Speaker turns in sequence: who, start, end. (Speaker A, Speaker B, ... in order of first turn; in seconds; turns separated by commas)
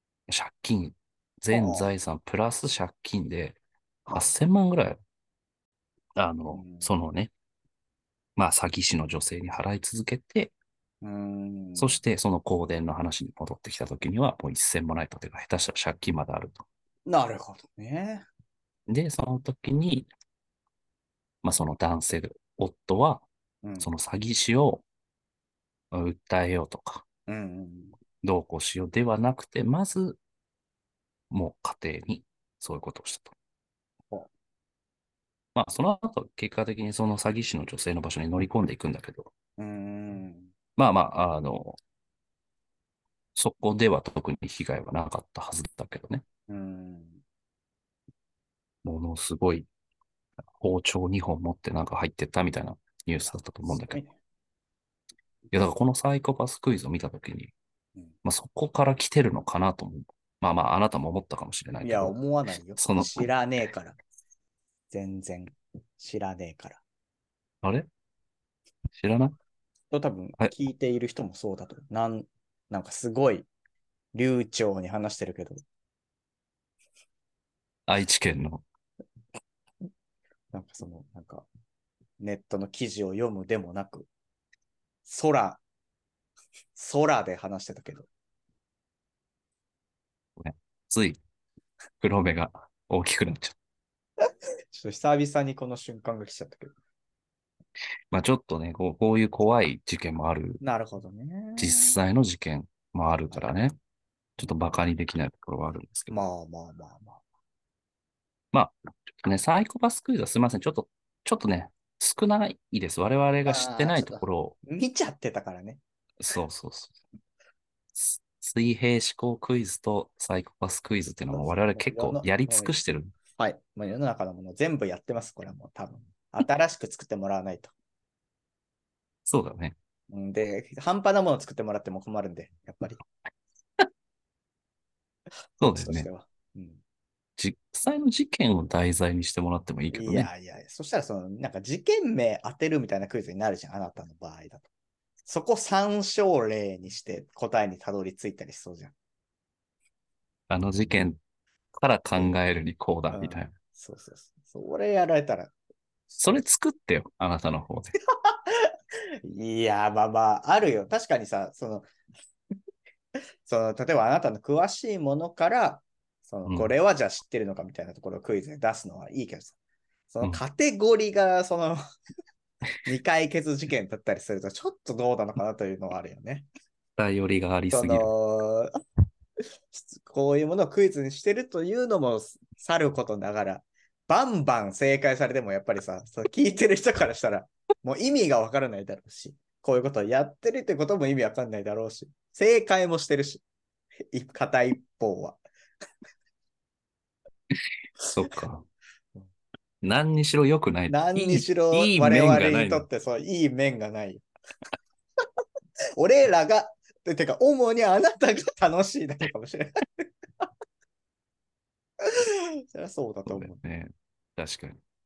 Speaker A: 0.3-3.6, Speaker B: 1.5-1.9, Speaker A: 4.1-5.0, Speaker A: 6.2-7.3, Speaker B: 6.5-6.9, Speaker A: 8.3-10.5, Speaker B: 11.0-12.0, Speaker A: 11.8-16.6, Speaker B: 17.1-18.2, Speaker A: 18.9-20.1, Speaker A: 21.4-23.2, Speaker B: 23.6-23.9, Speaker A: 23.8-24.8, Speaker A: 25.9-27.0, Speaker B: 27.3-27.9, Speaker A: 28.2-30.2, Speaker A: 31.3-33.3, Speaker A: 35.5-39.3, Speaker B: 39.6-40.5, Speaker A: 40.8-41.8, Speaker A: 43.3-46.2, Speaker B: 46.5-47.2, Speaker A: 48.8-49.7, Speaker A: 50.6-54.0, Speaker B: 53.6-54.1, Speaker A: 55.5-57.5, Speaker A: 58.2-62.1, Speaker B: 61.8-64.0, Speaker A: 62.8-63.3, Speaker B: 64.9-66.8, Speaker A: 67.6-67.9, Speaker A: 68.9-69.3, Speaker B: 69.9-73.5, Speaker B: 74.1-75.6, Speaker A: 77.9-78.6, Speaker B: 80.5-81.5, Speaker B: 82.2-84.1, Speaker B: 85.0-85.6, Speaker B: 86.7-88.1, Speaker A: 90.4-91.2, Speaker A: 92.0-93.5, Speaker B: 94.7-96.7, Speaker A: 98.1-100.6, Speaker B: 100.6-102.0, Speaker A: 101.6-103.7, Speaker A: 104.4-106.2, Speaker B: 106.1-107.2, Speaker A: 108.5-114.6, Speaker B: 113.5-115.8, Speaker A: 116.2-117.0, Speaker A: 117.9-123.1, Speaker B: 121.3-122.7, Speaker B: 123.4-127.7, Speaker A: 129.2-129.7, Speaker B: 130.1-133.0, Speaker A: 135.6-136.1, Speaker B: 135.7-136.8, Speaker A: 137.4-140.3, Speaker B: 139.9-144.7, Speaker B: 145.2-148.9, Speaker A: 150.5-151.2, Speaker A: 151.7-153.5, Speaker B: 153.1-155.5, Speaker B: 156.1-156.4, Speaker A: 156.2-157.9, Speaker B: 158.3-158.7, Speaker B: 159.2-161.9, Speaker B: 163.4-169.5, Speaker B: 170.1-171.8, Speaker B: 172.8-176.5, Speaker A: 177.0-178.1, Speaker B: 177.7-178.8, Speaker B: 179.7-193.4, Speaker B: 194.1-195.4, Speaker A: 198.0-198.6, Speaker A: 199.8-202.9, Speaker B: 200.9-204.2, Speaker B: 206.0-210.1, Speaker B: 212.0-213.6, Speaker A: 213.3-214.8